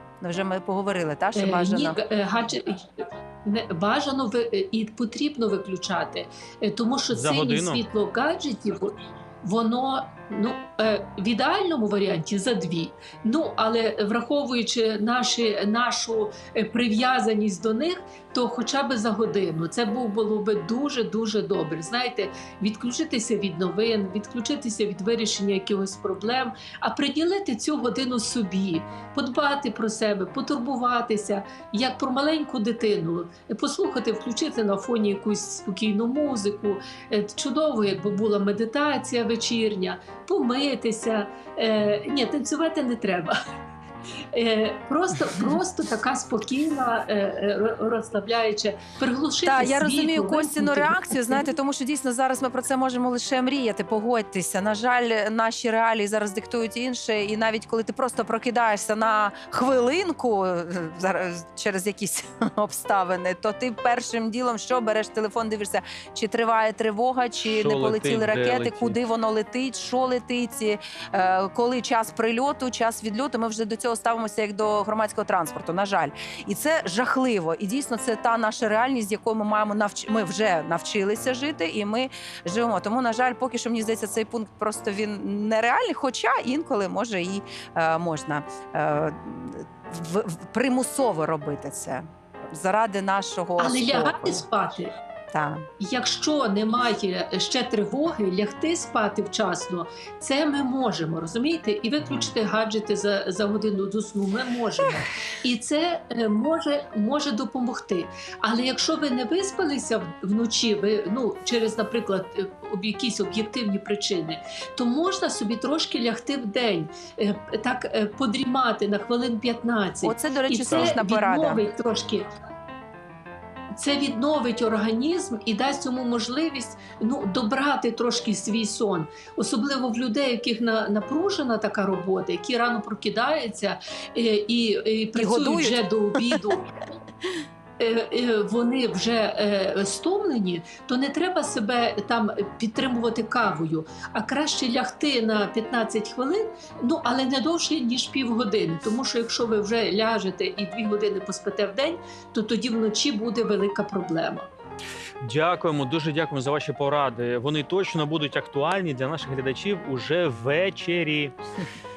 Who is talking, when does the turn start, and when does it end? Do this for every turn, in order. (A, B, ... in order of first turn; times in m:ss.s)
0:00.2-0:02.0 A
0:01.3-0:43.3 B
0:07.1-0:07.8 C
0:44.3-0:51.4 B
0:49.4-1:34.4 A
1:07.4-1:08.9 C
1:33.6-1:34.9 B
1:35.3-1:35.6 A
1:35.8-2:02.3 B
2:00.0-2:01.6 A
2:00.7-2:01.0 C
2:03.8-2:16.7 B
2:15.1-2:16.4 A
2:17.8-2:34.5 B
2:35.2-2:41.3 C